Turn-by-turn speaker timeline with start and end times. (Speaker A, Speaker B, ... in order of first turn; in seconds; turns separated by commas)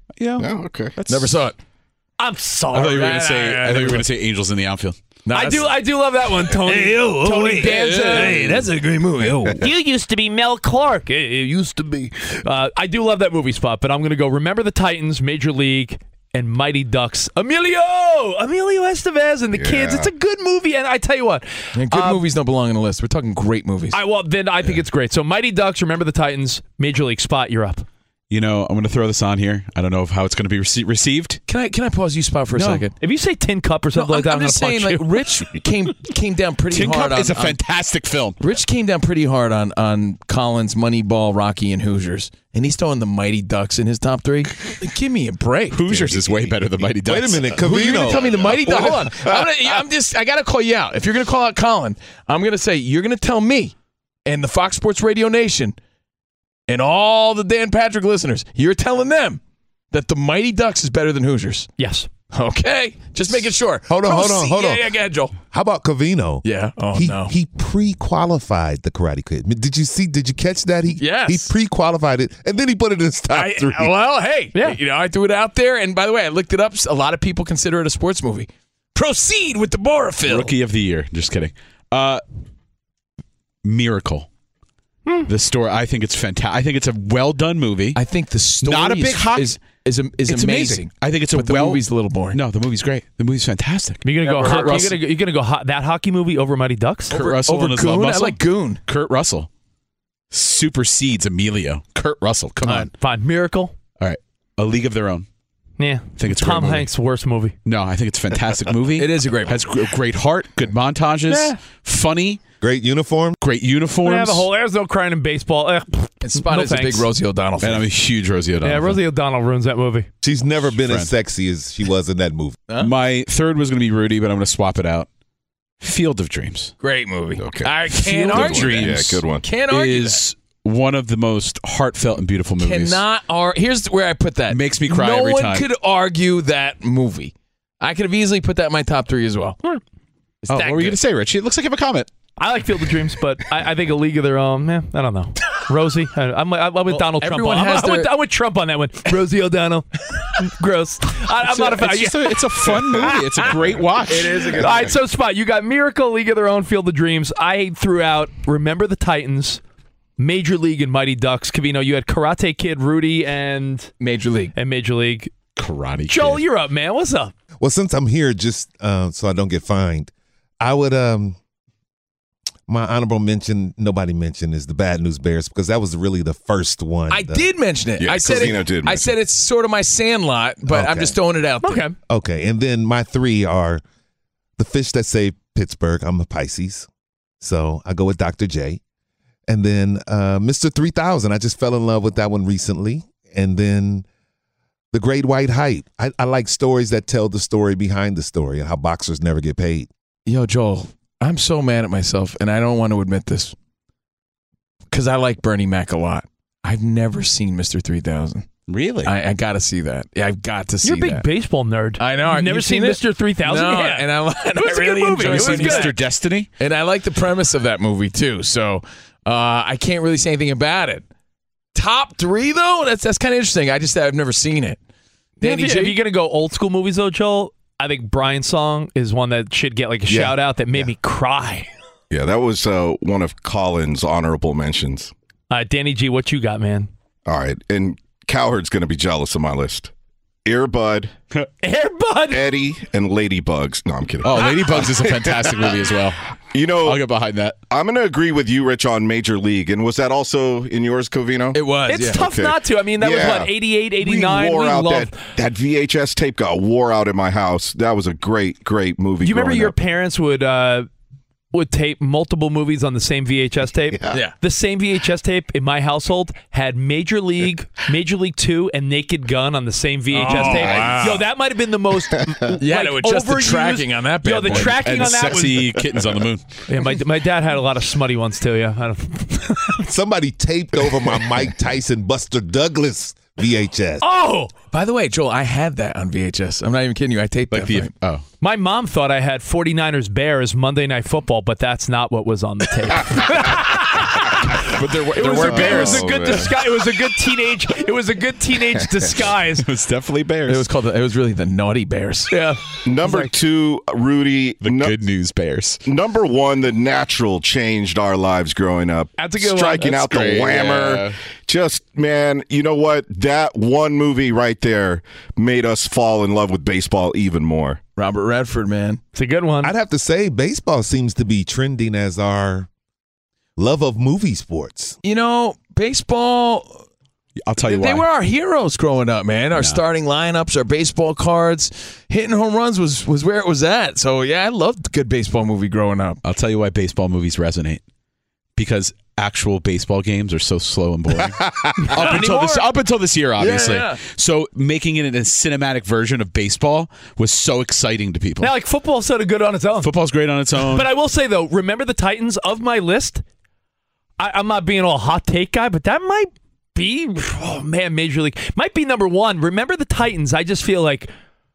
Speaker A: 0.2-1.4, Speaker B: 0.4-0.9, Speaker C: 1.1-1.5, Speaker D: 2.2-3.9, Speaker A: 2.7-5.0, Speaker C: 2.9-4.0, Speaker C: 5.2-5.7, Speaker D: 5.3-8.6, Speaker C: 6.5-9.6, Speaker D: 9.6-22.2, Speaker B: 19.5-20.1, Speaker C: 21.7-24.0, Speaker D: 23.9-27.8, Speaker A: 28.3-31.4, Speaker C: 31.5-32.9, Speaker A: 32.5-32.8, Speaker D: 33.0-35.2, Speaker C: 33.9-37.6, Speaker A: 36.7-38.4, Speaker C: 38.4-46.5, Speaker A: 45.7-48.2, Speaker E: 47.0-49.0, Speaker C: 47.5-53.7, Speaker C: 54.2-55.8, Speaker C: 56.7-59.4, Speaker C: 59.9-61.7, Speaker D: 61.8-62.1, Speaker C: 62.3-65.3, Speaker E: 63.9-64.9, Speaker E: 65.5-73.9, Speaker C: 66.4-67.3, Speaker C: 71.0-71.5, Speaker C: 73.3-80.5, Speaker A: 80.2-82.2, Speaker A: 83.6-84.3, Speaker A: 85.3-88.0, Speaker C: 87.9-92.4, Speaker A: 88.6-89.6, Speaker A: 90.3-91.8, Speaker A: 92.3-95.0, Speaker D: 94.0-97.1, Speaker A: 97.1-99.5, Speaker C: 97.1-98.8, Speaker A: 100.3-102.9, Speaker D: 102.9-103.7, Speaker A: 104.0-105.2, Speaker D: 105.8-107.5, Speaker A: 106.2-106.9, Speaker A: 107.6-112.4, Speaker C: 109.0-109.6, Speaker D: 111.3-111.5, Speaker E: 112.6-113.4, Speaker A: 113.4-114.5, Speaker D: 114.0-117.0, Speaker C: 116.2-117.8, Speaker A: 117.6-119.0, Speaker D: 118.6-120.1, Speaker E: 120.2-122.6, Speaker A: 120.7-121.1, Speaker A: 122.8-125.1, Speaker A: 125.8-126.7, Speaker C: 126.8-130.3, Speaker B: 127.4-129.4, Speaker A: 127.9-133.0, Speaker C: 132.6-139.6, Speaker A: 134.5-135.6, Speaker A: 140.5-142.1, Speaker D: 140.5-140.9, Speaker D: 142.4-153.5, Speaker C: 146.9-148.1, Speaker A: 151.5-154.8, Speaker C: 154.1-154.9, Speaker D: 154.5-159.6, Speaker D: 160.2-163.9, Speaker C: 164.0-164.5, Speaker D: 164.5-165.3, Speaker A: 165.6-166.4, Speaker D: 166.1-167.3, Speaker E: 167.6-171.3, Speaker E: 172.7-177.4, Speaker C: 177.1-181.8, Speaker B: 178.0-179.1, Speaker E: 180.7-181.1, Speaker D: 181.6-181.9, Speaker E: 182.1-183.8, Speaker E: 184.6-186.9, Speaker E: 187.4-188.8, Speaker E: 189.5-194.0, Speaker E: 194.9-199.9, Speaker C: 200.3-203.5, Speaker C: 204.9-208.5, Speaker A: 208.7-209.1, Speaker C: 209.0-211.2, Speaker D: 210.8-215.9, Speaker C: 212.0-216.0, Speaker A: 215.2-216.5, Speaker C: 216.6-221.0, Speaker C: 221.7-224.8, Speaker C: 225.4-226.0, Speaker D: 225.4-231.7, Speaker E: 230.1-230.3, Speaker B: 232.1-235.1, Speaker D: 235.5-236.9, Speaker B: 237.2-239.9, Speaker B: 240.4-241.1, Speaker D: 241.6-242.4, Speaker B: 242.3-245.7, Speaker A: 244.2-246.2, Speaker B: 246.5-247.0, Speaker A: 246.8-247.6, Speaker B: 247.7-251.6, Speaker C: 251.5-252.2, Speaker D: 251.9-255.2, Speaker B: 252.2-259.7, Speaker D: 259.2-260.9, Speaker D: 261.5-275.7, Speaker C: 270.1-271.2, Speaker A: 270.3-270.7, Speaker C: 272.6-274.8, Speaker A: 274.4-276.4, Speaker D: 276.7-279.8, Speaker E: 279.9-284.0, Speaker D: 284.0-284.5, Speaker C: 284.7-287.9, Speaker A: 287.5-288.2, Speaker D: 288.4-299.6, Speaker A: 294.8-296.2, Speaker C: 295.2-295.9, Speaker B: 295.4-296.5, Speaker A: 299.6-300.7, Speaker C: 300.5-302.3, Speaker D: 302.3-303.3, Speaker B: 302.8-304.9, Speaker A: 304.6-305.8, Speaker B: 305.9-317.8, Speaker D: 309.2-310.1, Speaker A: 309.8-311.1, Speaker C: 317.9-319.0, Speaker D: 319.1-319.7, Speaker E: 319.6-322.7, Speaker E: 323.6-325.0, Speaker C: 325.0-326.8, Speaker A: 327.4-328.1, Speaker C: 327.6-336.2, Speaker A: 329.6-329.8, Speaker A: 336.2-337.8, Speaker A: 338.6-348.5, Speaker D: 341.8-342.6, Speaker C: 343.4-344.0, Speaker D: 348.4-349.9, Speaker A: 349.8-350.9, Speaker D: 350.6-353.2, Speaker D: 354.2-361.1